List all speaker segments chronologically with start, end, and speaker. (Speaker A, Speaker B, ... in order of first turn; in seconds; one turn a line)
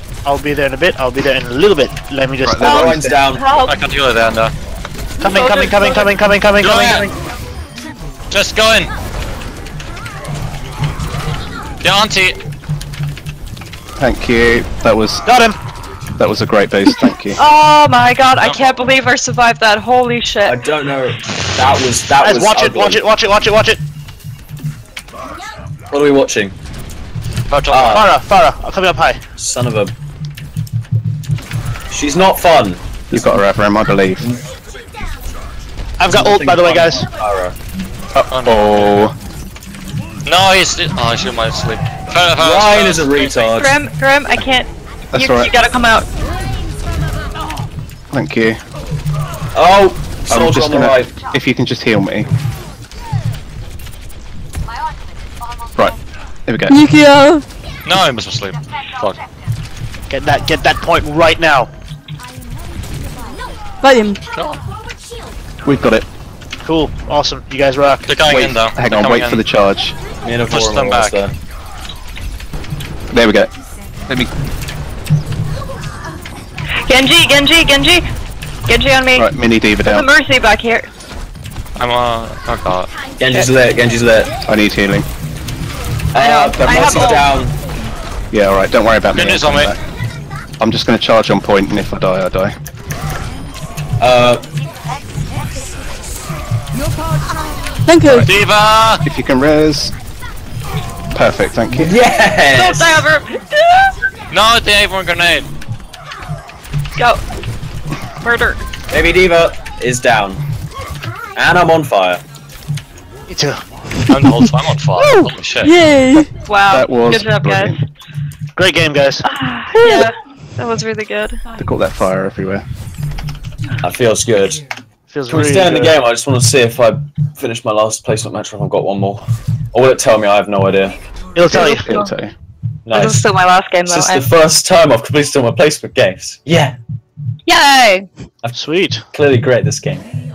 Speaker A: 0.2-2.9
Speaker B: 2.4-3.2
Speaker C: 2.6-3.8
Speaker D: 2.7-3.5
Speaker E: 3.7-4.5
Speaker A: 5.2-7.1
Speaker C: 5.2-6.2
Speaker E: 6.6-7.1
Speaker E: 8.3-8.9
Speaker E: 11.8-12.4
Speaker B: 14.0-15.3
Speaker A: 15.3-15.6
Speaker B: 16.2-17.4
Speaker C: 17.4-20.6
Speaker E: 18.4-18.9
Speaker D: 20.5-23.0
Speaker A: 22.2-23.8
Speaker D: 25.9-26.6
Speaker E: 27.5-28.1
Speaker D: 27.7-28.1
Speaker A: 27.9-29.2
Speaker D: 29.4-29.9
Speaker D: 31.9-33.4
Speaker B: 33.1-34.3
Speaker A: 36.0-37.1
Speaker D: 36.1-37.6
Speaker B: 38.1-39.1
Speaker E: 38.3-39.0
Speaker E: 40.3-43.5
Speaker D: 42.4-43.8
Speaker C: 43.6-46.1
Speaker B: 45.1-45.5
Speaker B: 48.1-48.6
Speaker D: 49.5-51.1
Speaker B: 50.3-52.3
Speaker B: 55.8-56.8
Speaker F: 56.7-57.4
Speaker E: 57.9-59.2
Speaker A: 60.1-61.7
Speaker F: 63.8-64.2
Speaker E: 64.4-64.6
Speaker B: 65.6-66.1
Speaker A: 66.6-68.1
Speaker E: 68.1-69.4
Speaker B: 68.3-70.0
Speaker D: 70.2-71.3
Speaker E: 70.5-71.2
Speaker B: 73.1-73.5
Speaker C: 76.8-78.1
Speaker C: 78.7-79.3
Speaker B: 79.1-80.1
Speaker C: 79.8-80.9
Speaker E: 81.8-82.9
Speaker D: 83.2-84.3
Speaker B: 84.5-85.1
Speaker D: 86.1-87.6
Speaker C: 86.2-87.3
Speaker B: 86.8-87.1
Speaker B: 88.3-89.8
Speaker E: 89.1-89.7
Speaker B: 90.6-92.5
Speaker D: 94.0-94.5
Speaker F: 97.9-98.3
Speaker E: 98.2-99.0
Speaker B: 99.0-99.9
Speaker B: 101.1-102.0
Speaker D: 101.7-103.1
Speaker C: 102.5-104.0
Speaker E: 104.3-105.5
Speaker C: 107.0-107.2
Speaker C: 108.2-108.6
Speaker D: 108.9-110.4
Speaker D: 111.3-112.2
Speaker A: 113.3-113.6
Speaker E: 114.1-115.8
Speaker F: 115.0-116.3
Speaker B: 116.1-117.8
Speaker C: 116.5-117.8
Speaker A: 118.6-119.3
Speaker C: 119.2-121.4
Speaker F: 119.7-120.1
Speaker B: 121.6-122.7
Speaker D: 123.8-124.6
Speaker A: 125.1-126.0
Speaker D: 125.3-131.0
Speaker A: 131.3-131.8
Speaker B: 131.5-132.3
Speaker C: 131.5-132.1
Speaker D: 132.9-133.2
Speaker C: 132.9-134.2
Speaker D: 133.9-136.8
Speaker C: 137.5-138.1
Speaker A: 138.5-139.1
Speaker D: 139.1-140.1